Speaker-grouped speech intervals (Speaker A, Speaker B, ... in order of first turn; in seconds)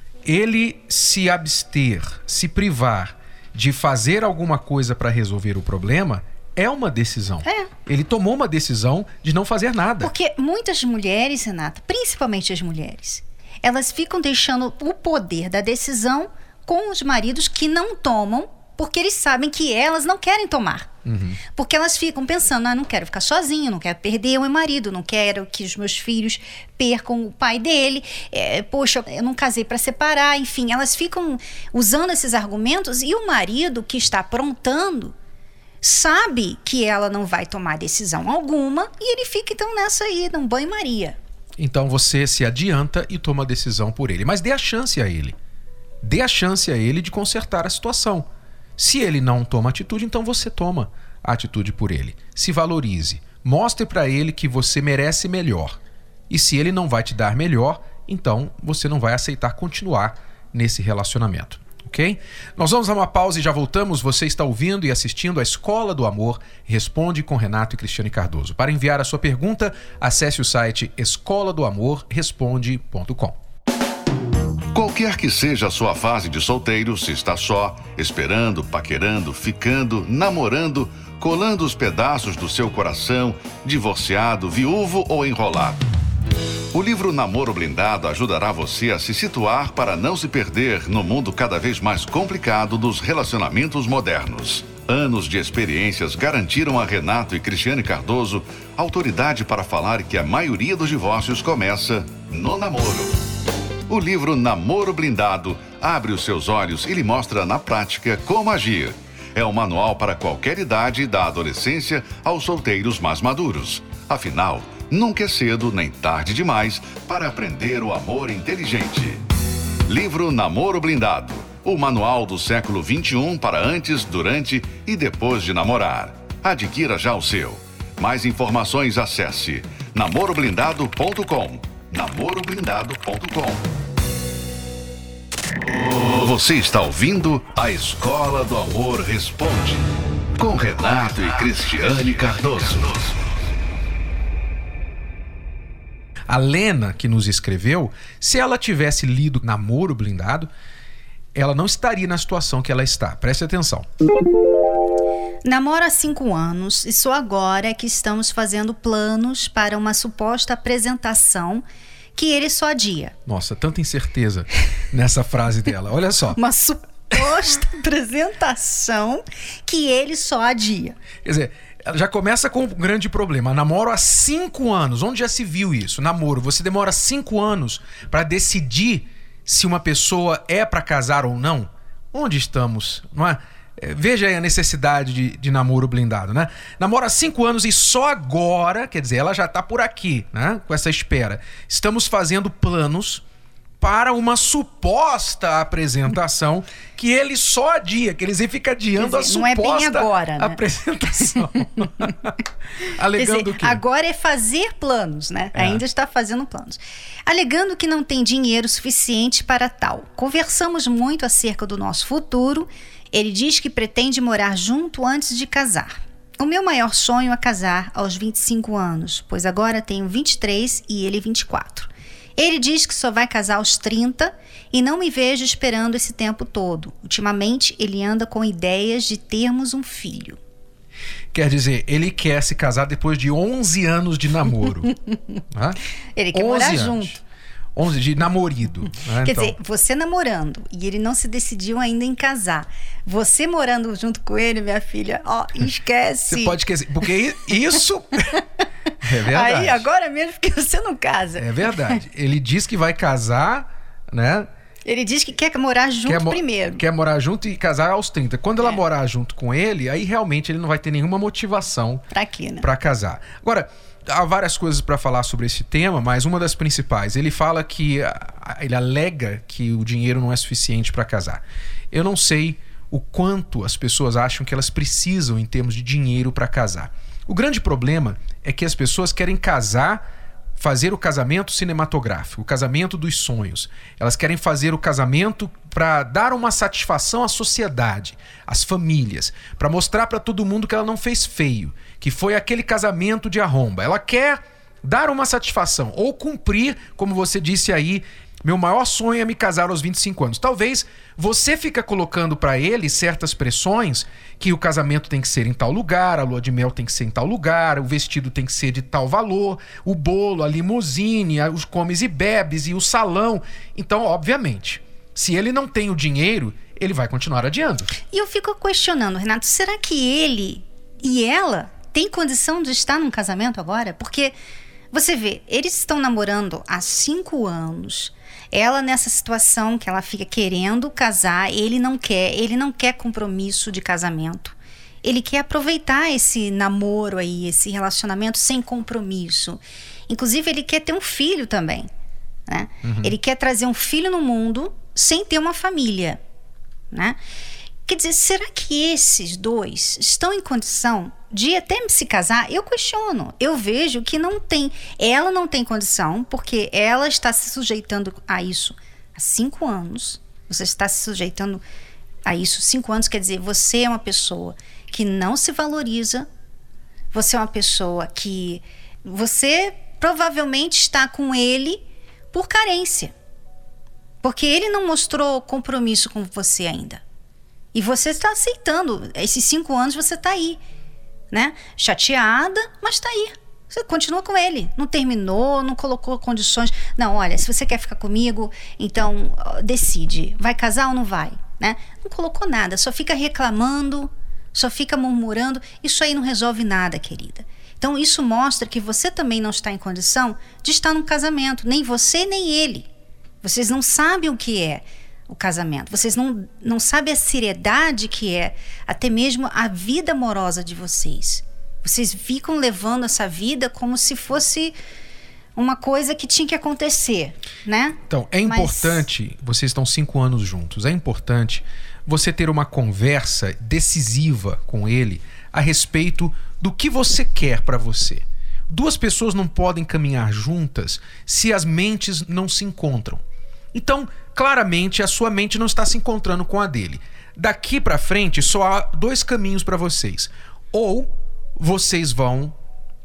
Speaker A: 0.2-10.1, 21.0-21.4, 41.6-45.3, 46.0-55.8, 56.3-73.3, 146.3-150.5, 151.3-153.9, 163.2-166.4, 171.2-193.2, 193.8-202.3, 203.0-203.8, 205.5-205.8, 231.3-234.9, 235.5-235.8, 236.3-237.2, 237.7-239.6, 246.2-248.3, 249.0-249.9, 251.4-254.5, 256.1-262.0, 262.6-280.0, 280.6-317.9, 342.8-343.1, 418.1-433.2, 433.7-442.6
Speaker B: 7.4-7.7, 10.0-20.9, 21.5-35.1, 35.8-41.2, 155.4-161.6, 162.1-163.1, 166.3-171.0, 199.0-200.6, 203.1-230.4, 236.1-237.2, 239.2-246.6, 249.3-252.0, 254.8-256.8, 262.1-262.7, 318.1-324.3, 324.9-341.9, 342.5-346.2, 346.9-347.2, 347.9-361.6, 362.2-366.3, 367.1-373.1, 374.2-377.0, 377.7-380.6, 381.3-402.9, 403.4-414.7, 415.6-419.0
Speaker C: 74.7-85.8, 86.7-103.2, 103.9-119.2, 119.9-133.7, 135.7-139.9, 140.4-143.1